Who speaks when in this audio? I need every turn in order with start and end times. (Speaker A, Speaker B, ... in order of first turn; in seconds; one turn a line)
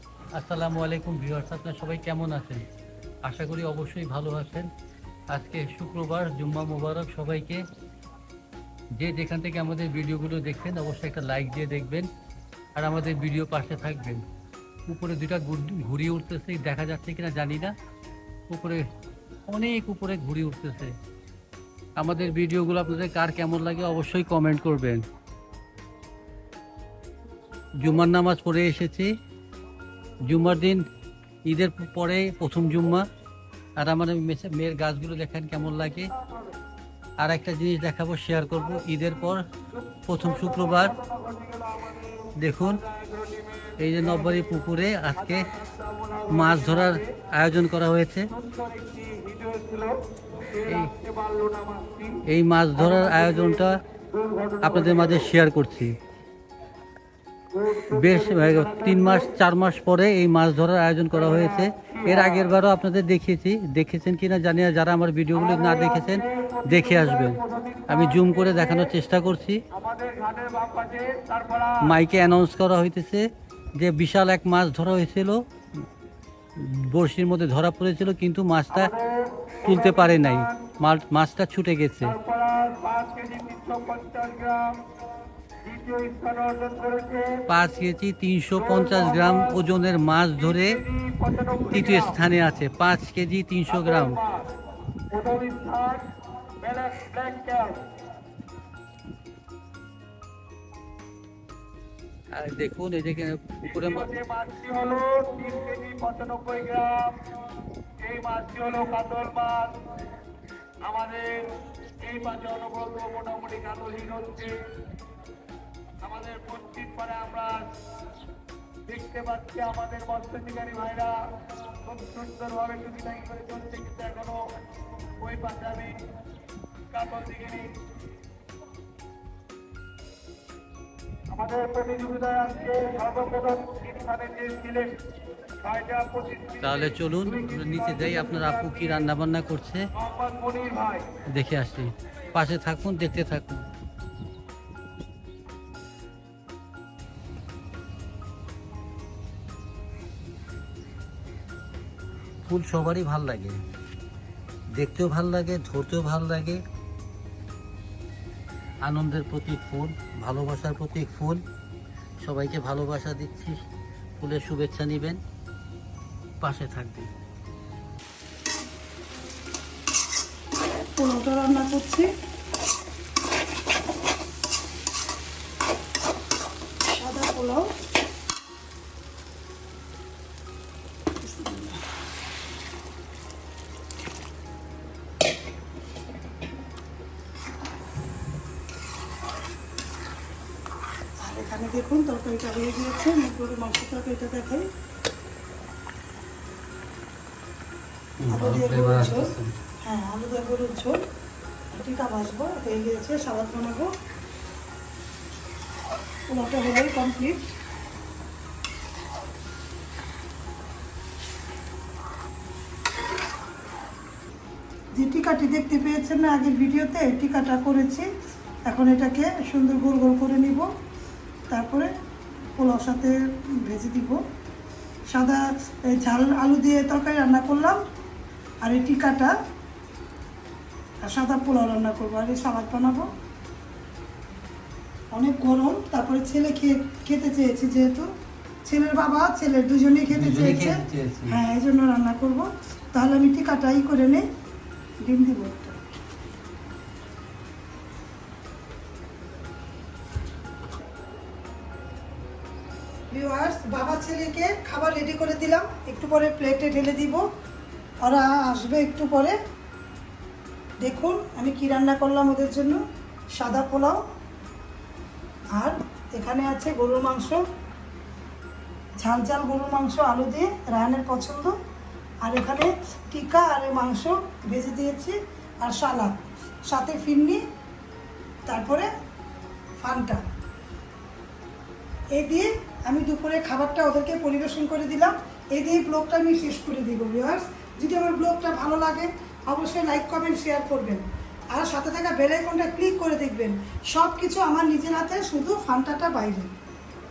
Speaker A: 0.3-2.6
Speaker A: 3.2-4.7
Speaker A: 5.3-7.6
Speaker A: 9.0-12.1
Speaker A: 12.8-14.2
Speaker A: 14.9-17.7
Speaker A: 18.5-18.9
Speaker A: 19.5-20.9
Speaker A: 22.0-25.0
Speaker A: 27.8-29.1
Speaker A: 30.3-30.8
Speaker A: 31.5-33.0
Speaker A: 33.8-36.1
Speaker B: 36.1-36.5
Speaker A: 37.2-39.5
Speaker B: 39.7-44.4
Speaker A: 40.1-41.0
Speaker A: 42.4-42.8
Speaker A: 43.8-45.5
Speaker B: 45.1-47.1
Speaker A: 46.3-48.3
Speaker B: 48.3-52.2
Speaker A: 50.6-50.9
Speaker A: 52.3-53.8
Speaker B: 52.8-55.3
Speaker A: 54.6-56.0
Speaker B: 57.5-59.3
Speaker A: 57.9-69.6
Speaker B: 61.2-62.5
Speaker B: 65.3-68.9
Speaker B: 69.7-71.9
Speaker A: 71.8-73.2
Speaker A: 73.8-75.4
Speaker A: 76.6-78.9
Speaker B: 78.7-80.7
Speaker A: 79.7-82.2
Speaker B: 82.1-84.8
Speaker B: 85.6-87.5
Speaker A: 87.5-90.8
Speaker B: 88.6-89.6
Speaker B: 90.4-92.1
Speaker A: 91.7-94.2
Speaker B: 93.7-94.5
Speaker B: 95.1-97.8
Speaker A: 102.3-104.1
Speaker B: 103.8-107.2
Speaker B: 108.0-109.8
Speaker B: 110.8-114.7
Speaker B: 116.0-117.7
Speaker B: 118.9-121.3
Speaker B: 121.8-124.5
Speaker B: 125.2-126.0
Speaker B: 126.9-127.8
Speaker B: 131.3-135.0
Speaker B: 135.6-139.1
Speaker A: 136.6-139.9
Speaker B: 140.0-141.2
Speaker A: 141.2-143.7
Speaker A: 152.5-153.6
Speaker A: 154.8-156.6
Speaker A: 158.8-161.4
Speaker A: 162.2-163.6
Speaker A: 164.2-165.2
Speaker A: 166.4-167.1
Speaker C: 170.9-172.1
Speaker C: 176.9-177.7
Speaker C: 181.2-181.8
Speaker C: 191.2-194.7
Speaker A: 198.2-199.5
Speaker C: 198.3-199.3
Speaker C: 199.8-201.0
Speaker C: 201.7-203.9
Speaker C: 206.3-207.4
Speaker C: 215.0-218.1
Speaker C: 218.7-220.7
Speaker C: 221.5-221.9
Speaker C: 222.5-224.2
Speaker C: 225.1-227.8
Speaker C: 228.6-229.3
Speaker C: 231.0-233.1
Speaker C: 235.1-238.1
Speaker C: 238.7-244.2
Speaker A: 240.1-241.4
Speaker C: 245.0-245.8
Speaker C: 253.1-257.2
Speaker C: 258.0-259.4
Speaker C: 260.8-262.8
Speaker C: 263.4-264.0
Speaker C: 265.6-267.4
Speaker C: 269.0-271.5
Speaker C: 272.2-276.1
Speaker C: 276.7-277.4
Speaker C: 278.5-278.9
Speaker C: 279.8-280.2
Speaker C: 282.1-296.5